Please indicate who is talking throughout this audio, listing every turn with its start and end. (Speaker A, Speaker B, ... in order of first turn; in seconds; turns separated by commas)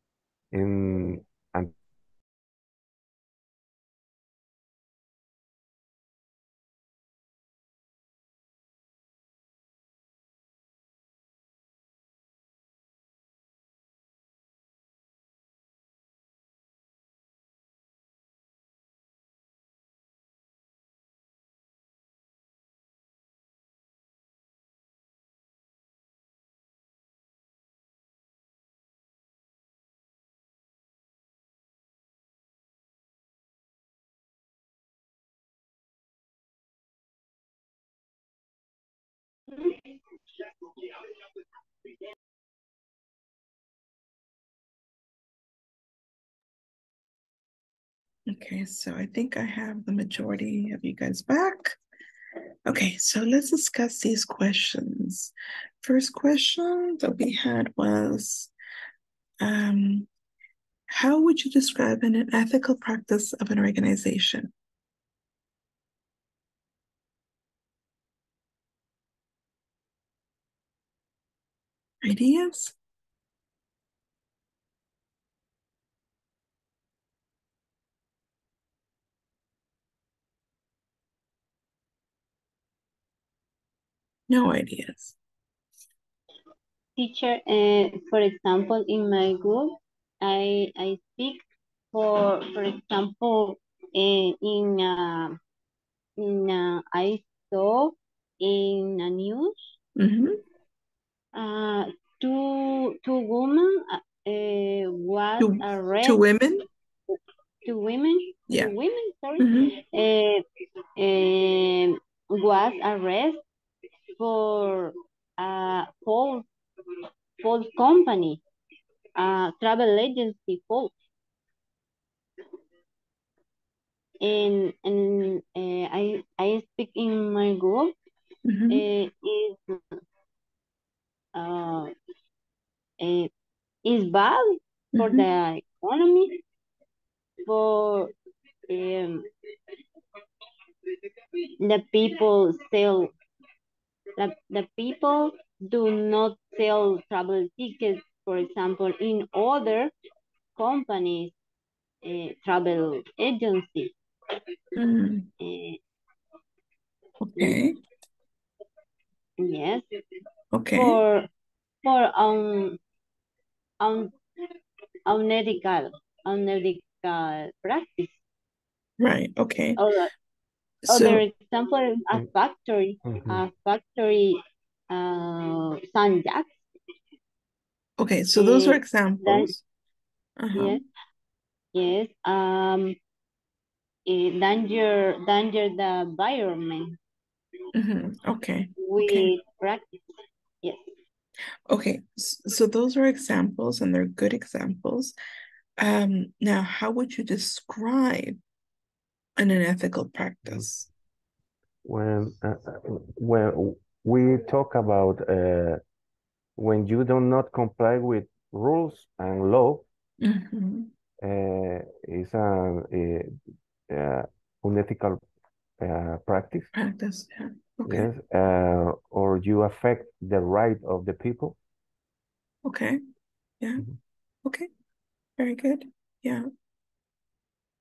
Speaker A: 0.5-1.7, Speaker B: 48.3-51.8, Speaker B: 52.7-58.5, Speaker B: 59.4-60.1, Speaker B: 60.9-64.5, Speaker B: 72.0-72.8, Speaker B: 84.3-85.2, Speaker C: 87.0-95.4, Speaker C: 96.2-99.6, Speaker B: 100.0-100.4, Speaker C: 101.3-106.2, Speaker B: 105.4-106.7, Speaker C: 107.2-110.4, Speaker B: 109.4-109.7, Speaker C: 111.0-113.4, Speaker C: 114.2-116.5, Speaker C: 117.4-118.4, Speaker C: 119.2-120.9, Speaker C: 124.2-127.9, Speaker B: 128.5-128.8, Speaker C: 128.7-129.8, Speaker C: 131.3-131.9, Speaker C: 133.0-133.3, Speaker C: 133.8-136.4, Speaker B: 134.9-135.3, Speaker C: 137.4-138.1, Speaker C: 138.7-139.3, Speaker C: 141.6-143.1, Speaker C: 144.2-149.9, Speaker C: 150.6-151.3, Speaker C: 152.0-153.9, Speaker B: 154.8-155.3, Speaker C: 155.4-155.8, Speaker B: 157.2-157.8, Speaker C: 159.4-159.8, Speaker B: 160.5-161.0, Speaker C: 160.8-161.2, Speaker C: 161.8-162.8, Speaker C: 163.8-164.1, Speaker C: 165.1-168.1, Speaker B: 169.0-169.8, Speaker C: 169.8-170.1, Speaker B: 170.8-171.2, Speaker C: 170.9-174.4, Speaker A: 173.1-173.4, Speaker C: 174.9-176.6, Speaker B: 178.0-179.6, Speaker C: 178.4-179.5, Speaker B: 180.4-180.8, Speaker C: 180.5-180.8, Speaker C: 181.7-183.0, Speaker C: 184.1-187.0, Speaker B: 187.8-189.3, Speaker C: 188.8-189.9, Speaker B: 191.7-195.2, Speaker B: 195.8-198.4, Speaker B: 199.4-200.9, Speaker A: 201.8-205.8, Speaker A: 206.6-209.9, Speaker B: 210.2-210.9, Speaker A: 211.2-213.3, Speaker A: 213.9-215.2, Speaker A: 215.8-216.7, Speaker B: 216.8-218.1, Speaker A: 217.9-221.6, Speaker B: 222.7-223.0, Speaker B: 225.4-226.5